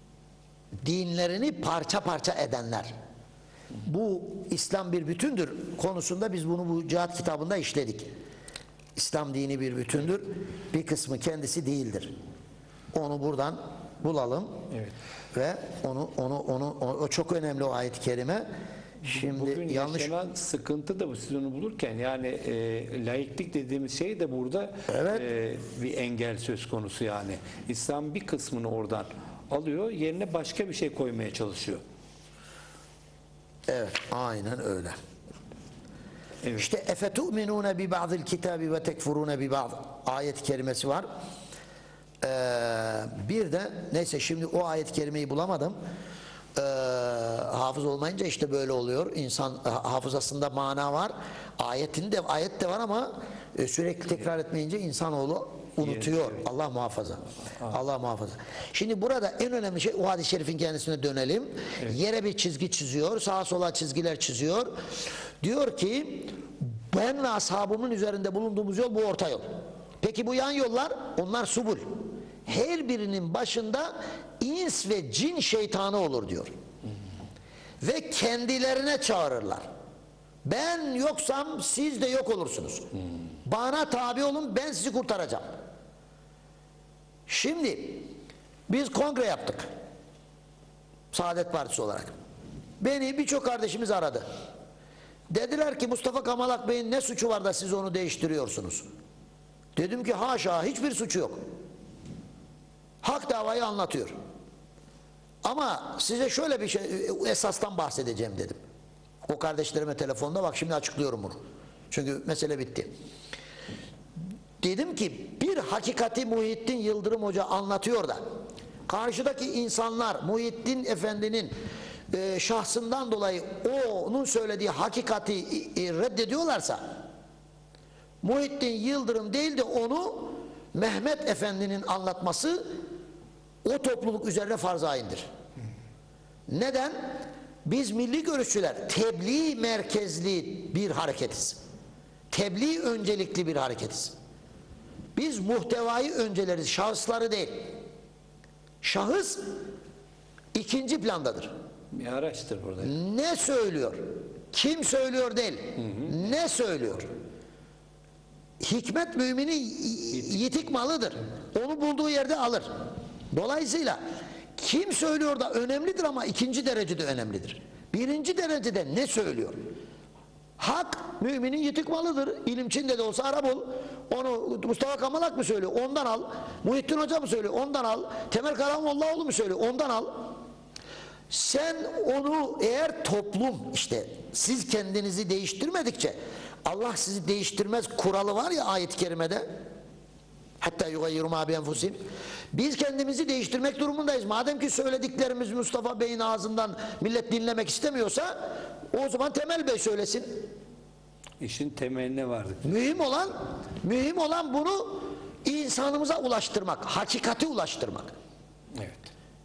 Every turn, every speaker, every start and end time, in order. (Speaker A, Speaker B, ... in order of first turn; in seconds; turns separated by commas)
Speaker A: 0.8-2.9, Speaker A: 3.8-8.1, Speaker A: 8.9-12.1, Speaker A: 12.9-14.6, Speaker A: 15.3-18.4, Speaker A: 19.0-20.1, Speaker B: 19.0-31.8, Speaker A: 24.9-25.2, Speaker A: 33.7-35.0, Speaker A: 36.5-41.0, Speaker A: 42.2-45.8, Speaker A: 46.5-64.7, Speaker B: 55.8-56.4, Speaker A: 65.4-69.4, Speaker A: 70.0-71.8, Speaker A: 72.5-76.5, Speaker A: 77.8-79.6, Speaker A: 80.4-82.8, Speaker A: 83.4-85.4, Speaker A: 87.3-88.0, Speaker A: 88.7-89.7, Speaker A: 91.1-92.1, Speaker A: 92.8-94.2, Speaker A: 95.3-98.8, Speaker A: 99.8-101.4, Speaker A: 103.0-104.1, Speaker A: 105.4-108.6, Speaker A: 109.3-111.4, Speaker A: 111.9-112.9, Speaker A: 114.6-118.2, Speaker A: 118.9-121.5, Speaker A: 122.1-126.8, Speaker A: 128.2-132.7, Speaker A: 133.6-135.3, Speaker A: 136.5-141.6, Speaker A: 142.3-144.1, Speaker A: 145.1-147.5, Speaker A: 148.8-149.4, Speaker A: 150.5-151.5, Speaker B: 151.9-152.9, Speaker A: 152.8-154.0, Speaker A: 154.5-157.1, Speaker A: 158.6-162.7, Speaker A: 163.3-164.0, Speaker A: 164.6-169.6, Speaker A: 170.6-180.3, Speaker A: 181.3-189.4, Speaker A: 190.6-192.0, Speaker A: 192.5-198.3, Speaker A: 198.9-200.3, Speaker B: 201.4-202.8, Speaker A: 202.6-208.1, Speaker B: 208.8-209.1